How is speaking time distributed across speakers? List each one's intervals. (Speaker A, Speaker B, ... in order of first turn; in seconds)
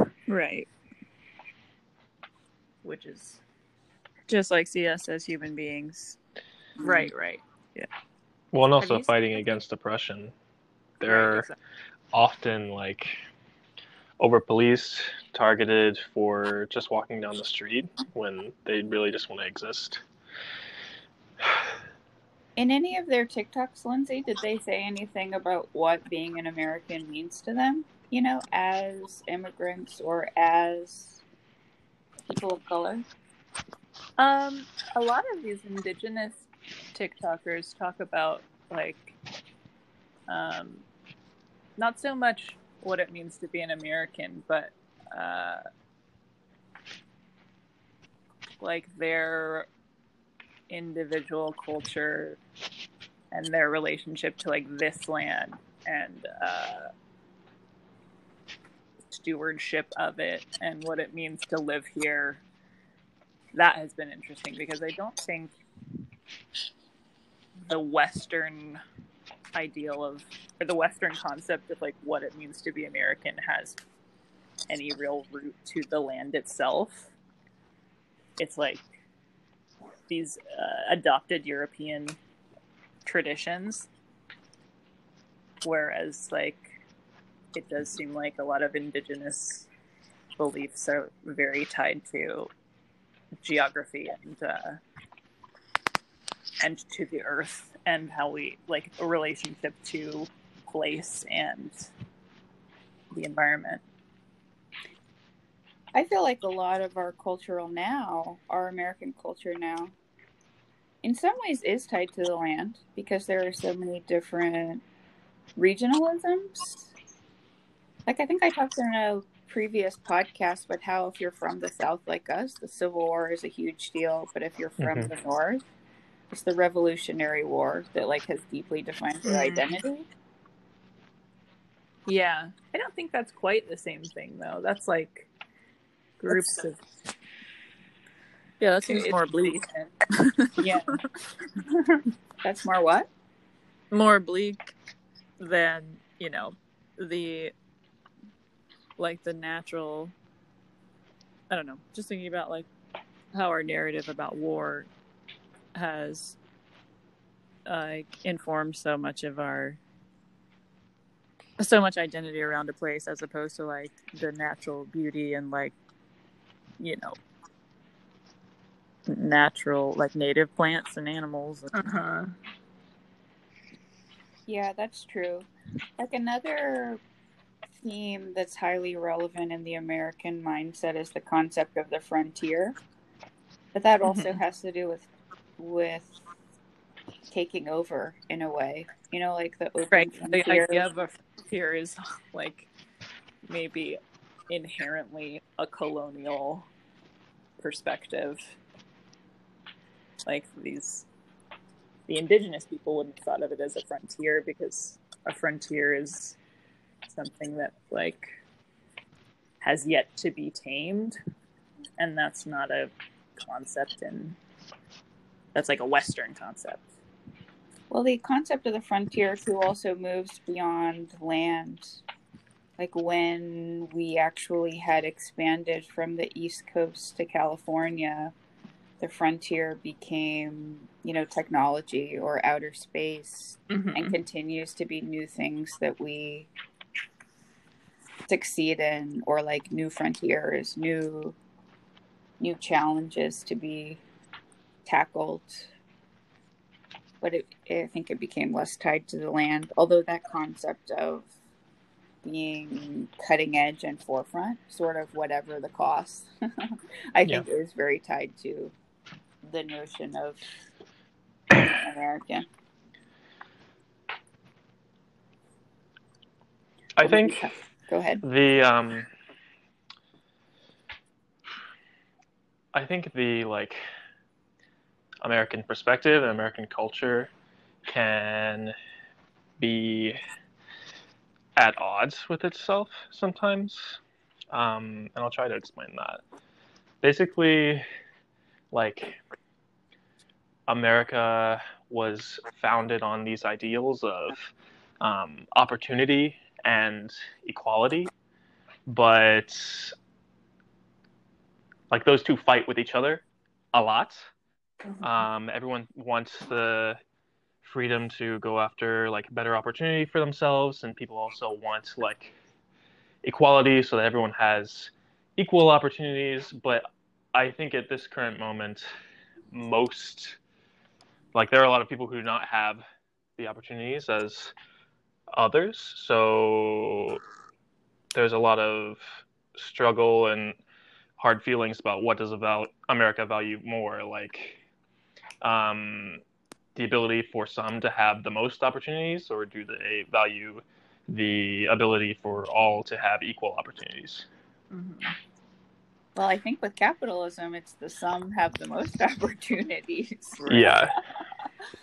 Speaker A: 0.3-0.7, 4.3-6.2, 6.8-7.1, 138.6-140.7, 143.9-144.7, 145.4-147.5, 149.0-150.1, 151.5-152.7, 153.3-154.9, 155.7-156.4, 157.7-159.8, 161.6-165.8, 166.8-167.2, 169.1-171.9
Speaker B: 2.8-3.4, 6.8-7.4, 8.8-9.4, 11.0-11.6, 34.2-39.1, 40.3-40.9, 41.8-45.6, 48.6-49.7, 50.7-52.4, 53.3-56.9, 59.1-62.4, 63.5-65.5, 67.6-68.8, 69.5-73.8, 74.7-77.1, 78.4-78.9, 80.1-82.2, 83.0-83.9, 85.6-86.7, 87.5-89.7, 90.4-92.5, 93.4-94.8, 96.6-101.9, 103.1-103.8, 129.3-129.7, 132.1-135.3, 136.2-136.8, 138.8-139.9, 171.7-172.3, 184.0-184.4, 189.9-192.7, 193.4-196.7, 197.6-198.6, 200.2-201.1, 202.1-206.4, 207.1-208.3, 209.6-211.2, 212.0-214.4, 215.5-216.9, 233.7-234.2, 344.7-345.1, 350.4-350.8
Speaker C: 8.5-10.3, 11.0-11.5, 12.1-13.2, 14.2-20.0, 124.8-125.1, 267.0-267.5, 268.2-269.1, 272.7-273.8, 275.2-277.3, 277.9-278.7, 279.6-280.2, 281.6-284.0, 284.5-286.2, 287.0-287.8, 288.7-289.2, 290.7-298.1, 298.9-299.9, 301.9-304.3, 305.0-307.0, 307.6-312.3, 313.2-318.9, 319.5-320.4, 321.3-322.8, 323.4-324.5, 325.3-327.2, 328.1-330.6, 331.2-334.6, 335.4-336.2, 336.7-344.3, 350.5-351.0
Speaker D: 22.6-31.2, 32.3-33.0, 105.9-109.9, 111.0-114.8, 115.5-116.9, 118.0-125.6, 126.3-130.1, 140.6-141.0, 142.4-143.1, 174.5-177.0, 177.8-182.8, 183.7-186.2, 187.3-190.8, 217.9-222.0, 222.8-228.3, 229.0-236.5, 238.3-241.3, 242.4-244.0, 244.8-245.7, 247.2-251.3, 252.2-258.7, 259.4-260.5, 261.5-262.4, 267.0-268.2, 346.1-350.7